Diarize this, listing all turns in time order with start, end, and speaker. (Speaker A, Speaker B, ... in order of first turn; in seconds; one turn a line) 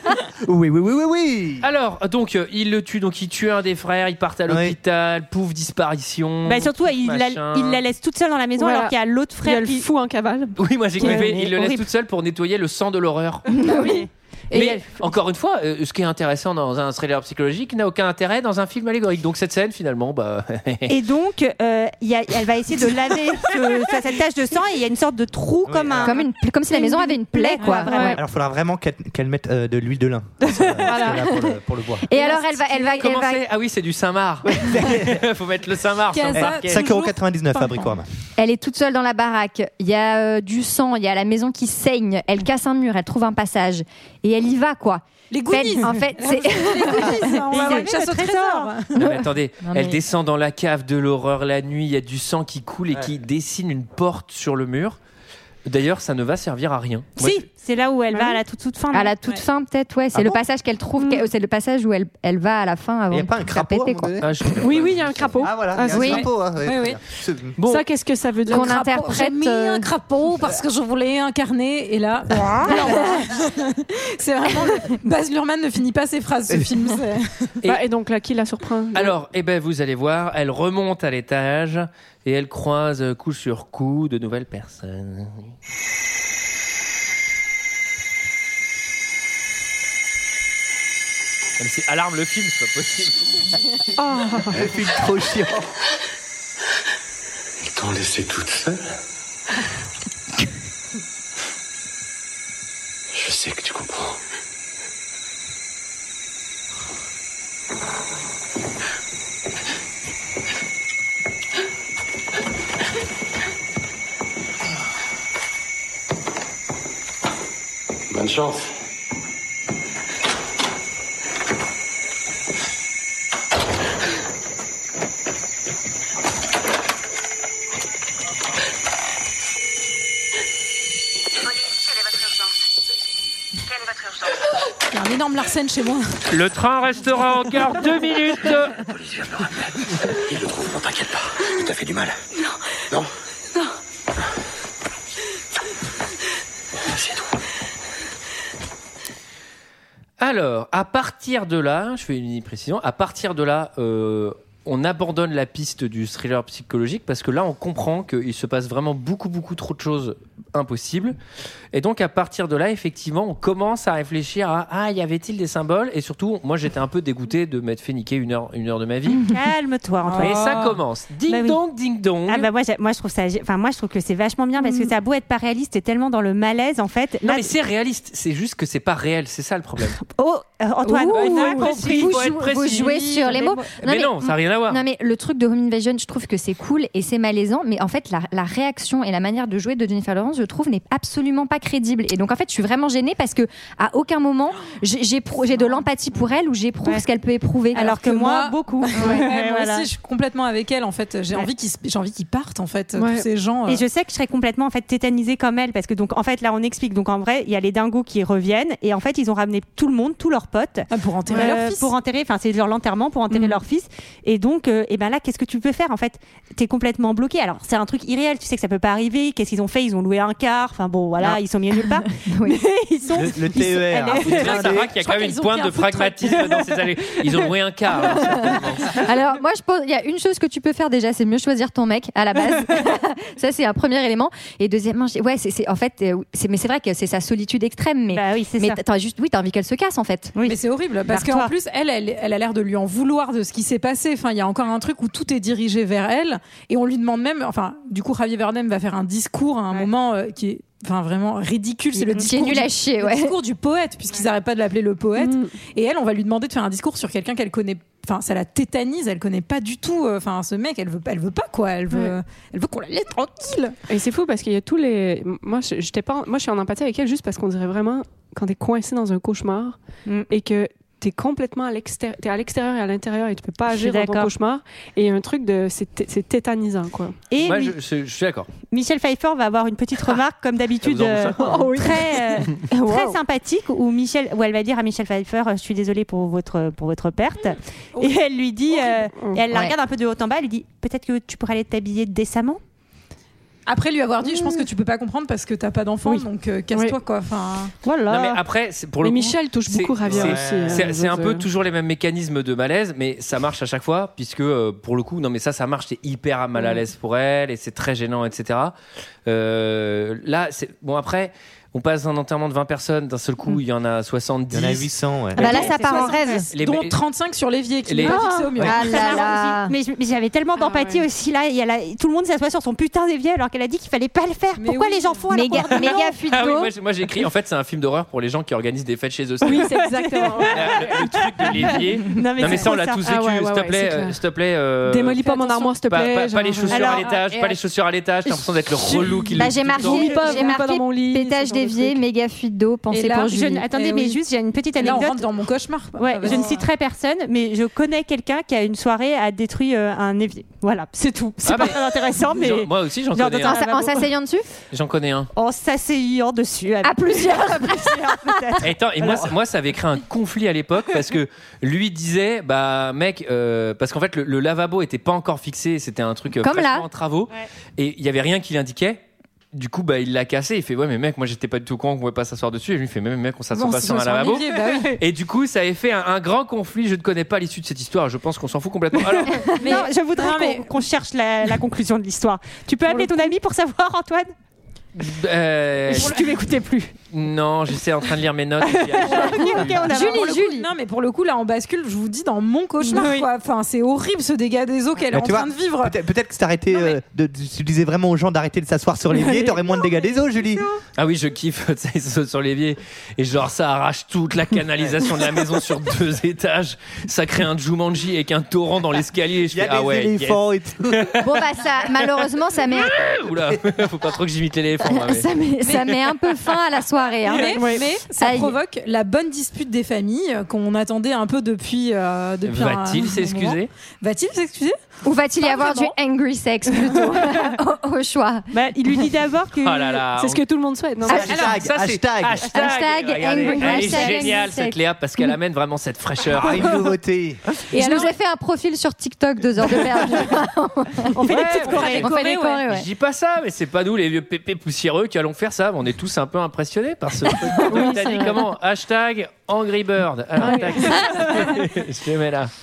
Speaker A: 0.4-1.7
Speaker B: 1.6-7.8
Speaker A: 4.5-4.8
Speaker C: 6.5-9.9
Speaker D: 8.6-11.3
Speaker B: 10.6-13.5
Speaker C: 11.0-11.9
Speaker C: 13.7-14.8
Speaker B: 14.5-21.0
Speaker C: 20.9-28.2
Speaker A: 25.7-26.1
Speaker E: 26.0-28.2
Speaker F: 27.6-28.2
Speaker A: 28.2-32.1
Speaker E: 32.1-33.4
Speaker B: 32.9-36.8
Speaker A: 34.5-35.2
Speaker F: 36.1-37.9
Speaker A: 36.4-38.1
Speaker E: 38.4-47.8
Speaker F: 45.3-49.1
Speaker C: 47.5-48.7
Speaker B: 49.0-55.0
Speaker E: 49.6-50.0
Speaker B: 55.7-57.5
Speaker C: 57.2-59.2
Speaker E: 58.9-64.2
Speaker A: 60.1-60.4
Speaker A: 63.1-64.4
Speaker B: 64.2-65.5
Speaker D: 64.6-66.3
Speaker A: 65.4-67.5
Speaker E: 65.9-66.3
Speaker F: 66.1-67.0
Speaker B: 67.6-67.8
Speaker D: 67.6-68.8
Speaker F: 68.5-77.5
Speaker E: 68.5-69.9
Speaker E: 72.7-73.3
Speaker D: 77.7-79.2
Speaker B: 78.9-85.5
Speaker B: 91.6-93.6
Speaker D: 94.0-94.6
Speaker A: 94.5-95.7
Speaker G: 97.6-99.0
Speaker G: 103.1-104.2
Speaker G: 118.1-118.7
Speaker F: 134.9-136.2
Speaker B: 136.3-138.8
Speaker G: 138.8-142.2
Speaker G: 146.9-147.2
Speaker B: 150.2-161.2
Speaker B: 161.7-169.2
Speaker C: 169.2-170.6
Speaker F: 170.0-170.8
Speaker B: 170.2-172.5
Speaker C: 171.3-171.6
Speaker C: 172.3-177.5
Speaker F: 174.6-174.9
Speaker B: 177.2-180.0
Speaker C: 180.0-182.2
Speaker E: 180.8-197.9
Speaker F: 181.0-182.1
Speaker B: 181.1-183.2
Speaker F: 182.7-183.5
Speaker C: 183.2-183.6
Speaker B: 183.8-184.8
Speaker C: 197.7-199.9
Speaker F: 197.8-203.9
Speaker D: 203.0-203.3
Speaker C: 203.7-224.6
Speaker F: 210.9-211.9
Speaker E: 221.8-222.6
Speaker A: 223.2-224.9
Speaker F: 224.1-226.8
Speaker B: 224.2-229.0
Speaker E: 228.4-240.3
Speaker C: 238.1-238.8
Speaker C: 240.3-241.5
Speaker F: 240.4-263.8
Speaker E: 252.0-253.4
Speaker D: 255.2-255.5
Speaker D: 261.9-262.2
Speaker D: 263.9-269.8
Speaker D: 270.3-277.2
Speaker C: 273.7-274.3
Speaker C: 277.3-277.8
Speaker B: 277.4-278.5
Speaker C: 278.7-292.6
Speaker B: 280.8-281.6
Speaker D: 281.4-283.2
Speaker D: 289.2-289.4
Speaker F: 293.7-297.7
Speaker C: 297.8-298.4
Speaker B: 298.1-314.9
Speaker D: 299.0-301.5
Speaker A: 300.1-300.9
Speaker A: 314.5-315.7
Speaker E: 315.4-316.5
Speaker F: 315.4-319.3
Speaker C: 315.5-316.4
Speaker B: 316.5-317.0
Speaker B: 317.9-318.2
Speaker C: 318.0-326.1
Speaker E: 318.4-319.7
Speaker D: 320.6-321.0
Speaker F: 324.6-325.2
Speaker E: 325.3-326.7
Speaker B: 326.3-329.7
Speaker D: 329.4-331.1
Speaker C: 330.0-330.5
Speaker F: 330.1-330.5
Speaker B: 330.5-340.2
Speaker C: 332.1-333.0
Speaker D: 332.6-334.2
Speaker D: 334.9-337.0
Speaker F: 335.3-335.7
Speaker C: 336.7-337.1
Speaker F: 337.0-337.6
Speaker E: 339.4-343.7
Speaker C: 339.9-340.3
Speaker D: 339.9-342.0
Speaker F: 340.1-341.0
Speaker F: 342.9-344.2
Speaker C: 343.3-345.3
Speaker F: 344.8-346.7
Speaker C: 346.0-354.1
Speaker B: 351.4-353.6
Speaker E: 353.5-354.5
Speaker B: 354.7-355.3
Speaker C: 355.4-359.3
Speaker E: 356.8-358.6
Speaker B: 358.6-379.6
Speaker E: 366.4-366.9
Speaker F: 373.5-375.0
Speaker C: 379.6-384.3
Speaker F: 379.6-380.7
Speaker B: 384.9-386.2
Speaker C: 385.9-386.9
Speaker B: 387.1-389.9
Speaker C: 388.9-390.3
Speaker F: 389.3-395.9
Speaker E: 389.9-390.7
Speaker C: 392.9-393.3
Speaker A: 395.1-400.7
Speaker B: 401.0-410.4
Speaker A: 409.5-411.2
Speaker B: 411.0-411.2
Speaker E: 411.2-413.1
Speaker B: 412.7-415.3
Speaker E: 414.9-418.6
Speaker F: 415.7-415.9
Speaker F: 417.2-424.8
Speaker D: 417.4-417.9
Speaker B: 422.4-423.7
Speaker E: 425.1-428.5
Speaker F: 425.4-425.9
Speaker C: 428.5-430.1
Speaker B: 429.6-430.4
Speaker D: 430.2-431.3
Speaker A: 431.1-432.5
Speaker E: 431.1-431.3
Speaker F: 431.3-431.6
Speaker B: 431.3-436.8
Speaker E: 432.5-434.8
Speaker C: 433.6-434.4
Speaker A: 436.3-437.4
Speaker F: 437.7-438.1
Speaker E: 437.7-441.2
Speaker C: 441.1-442.2
Speaker F: 441.3-442.5
Speaker B: 441.3-442.1
Speaker E: 442.0-442.9
Speaker B: 442.6-452.5
Speaker F: 447.7-448.3
Speaker F: 450.6-451.6
Speaker D: 450.6-451.0